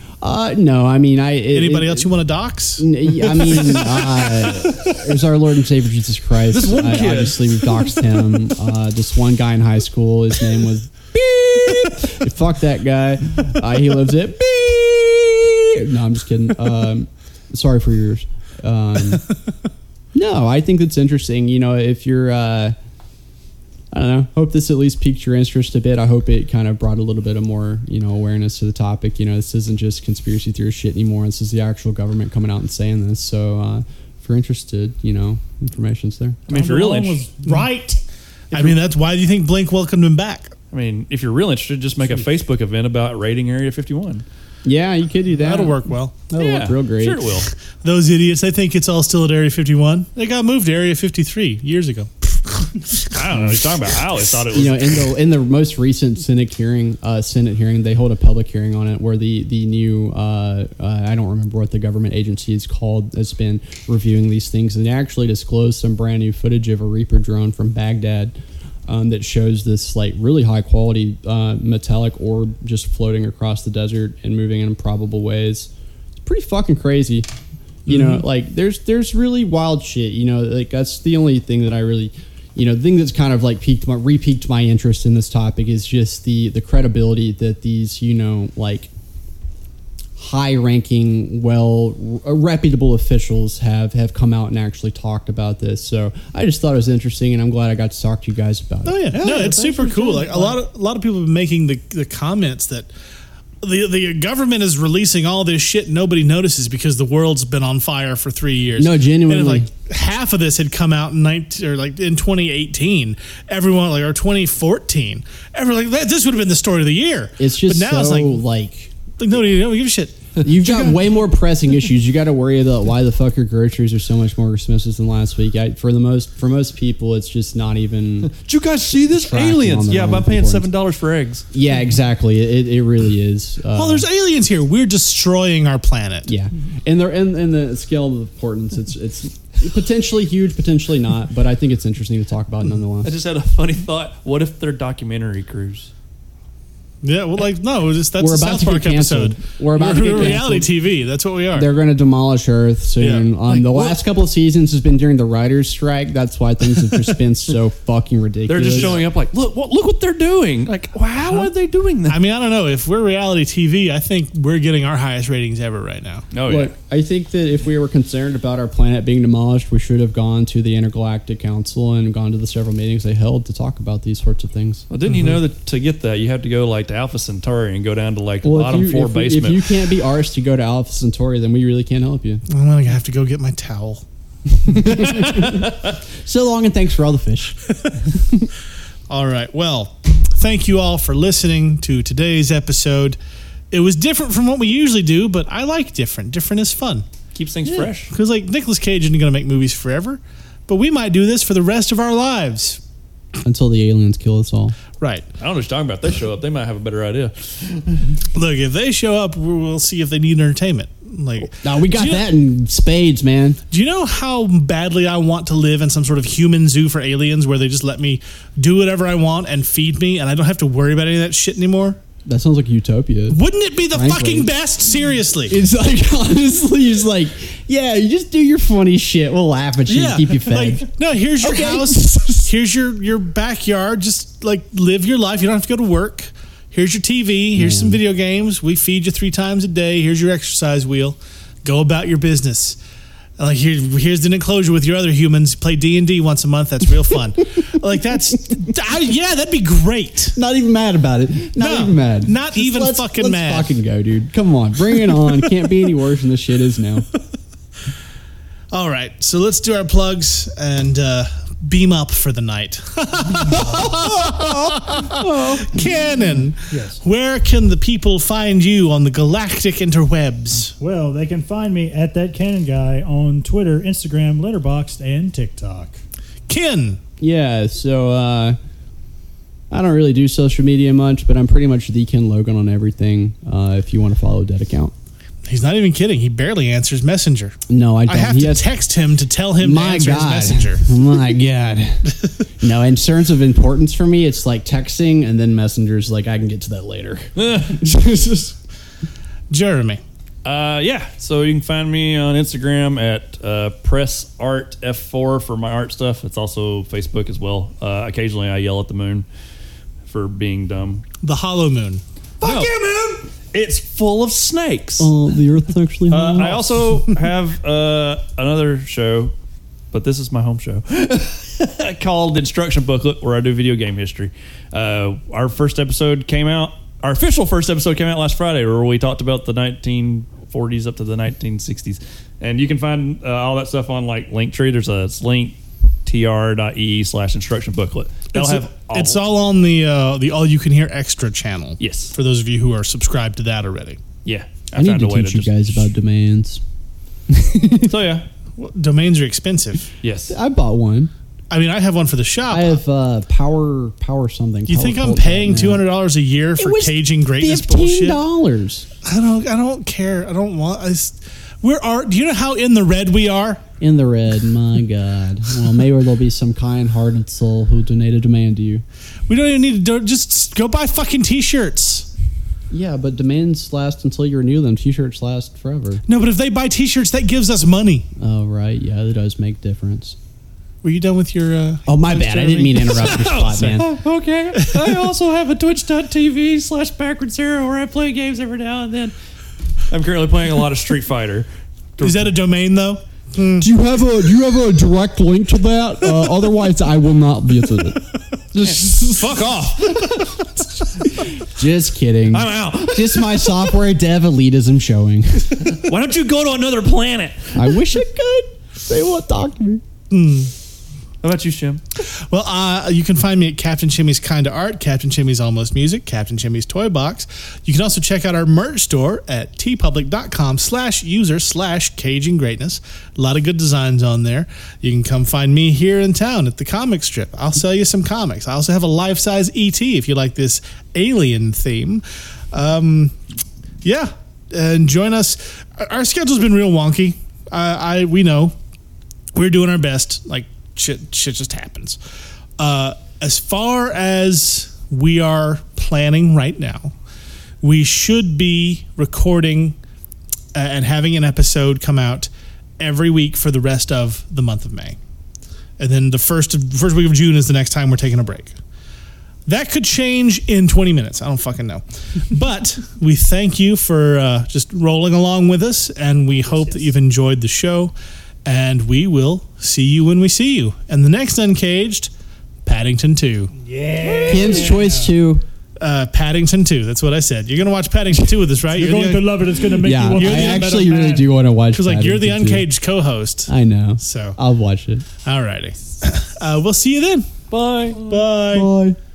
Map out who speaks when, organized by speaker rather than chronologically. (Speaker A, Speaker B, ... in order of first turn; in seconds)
Speaker A: 0.2-2.1, 2.8-19.2, 20.1-22.8, 23.9-36.4, 44.6-47.3, 54.5-75.7, 76.2-77.3, 77.9-88.9, 90.2-99.2, 108.8-109.7, 117.4-118.9, 120.4-128.3, 128.9-130.7, 131.5-134.1, 136.3-143.1, 148.2-150.7, 151.5-159.0, 166.5-174.8, 178.4-182.4, 184.6-187.6, 203.4-204.8, 211.6-213.6, 222.2-224.5, 225.5-230.8, 231.4-232.5, 237.5-238.0, 250.3-257.1, 264.2-265.9, 277.2-278.6, 279.7-284.9, 287.7-288.6, 289.6-298.6, 315.0-316.9, 344.8-346.6, 347.3-347.9, 350.3-351.1, 352.5-355.9, 356.6-358.9, 363.8-368.8, 372.7-376.0, 378.2-380.2, 381.9-383.9, 393.6-398.0, 398.5-400.2, 401.2-405.8, 407.6-409.8, 474.3-475.4, 479.8-482.7, 483.5-485.1, 488.5-489.0
Speaker B: 1.5-3.8, 37.5-37.9, 38.5-40.5, 45.4-46.2, 47.8-53.0, 77.9-78.2, 98.8-102.9, 103.6-118.4, 119.2-120.9, 133.8-136.3, 147.0-151.7, 153.0-153.9, 158.6-159.1, 162.1-166.3, 182.5-184.0, 189.1-193.2, 193.7-197.1, 197.7-202.8, 205.0-205.2, 208.3-212.3, 213.7-222.0, 223.3-225.6, 229.9-242.8, 243.4-250.4, 251.6-253.7, 258.7-270.8, 276.5-277.0, 285.5-287.6, 288.1-290.9, 299.5-300.0, 311.2-312.0, 338.3-344.0, 348.6-349.9, 351.5-352.8, 354.7-358.2, 359.1-363.7, 369.3-372.1, 376.1-378.1, 380.8-383.3, 392.0-393.7, 410.1-410.5, 412.3-433.1, 433.8-438.5, 439.3-442.0, 442.6-446.9, 447.6-449.8, 450.5-455.0, 455.8-458.5, 459.5-467.9, 468.4-472.1, 472.6-473.5, 474.2-474.9, 475.8-479.4, 480.0-481.0, 481.7-484.4, 485.2-487.3, 487.9-488.7
Speaker C: 3.5-5.0, 6.5-8.2, 36.5-37.3, 38.5-38.8, 40.7-44.2, 46.3-47.5, 53.1-55.1, 128.3-131.4, 143.0-145.9, 158.5-162.2, 166.3-166.7, 174.9-179.7, 184.8-185.9, 197.3-198.1, 205.4-208.2, 297.4-297.8, 300.4-309.3, 310.1-311.1, 312.4-315.1, 316.1-319.3, 319.9-339.2, 341.8-342.1, 344.2-345.8, 347.8-348.3, 350.0-350.4, 382.8-389.1, 389.9-392.4, 398.6-401.3, 402.3-403.8, 405.6-407.9, 411.2-411.8, 487.5-488.2
Speaker D: 36.5-38.0, 99.1-100.6, 266.7-267.0, 270.8-276.0, 473.6-475.1, 478.7-481.3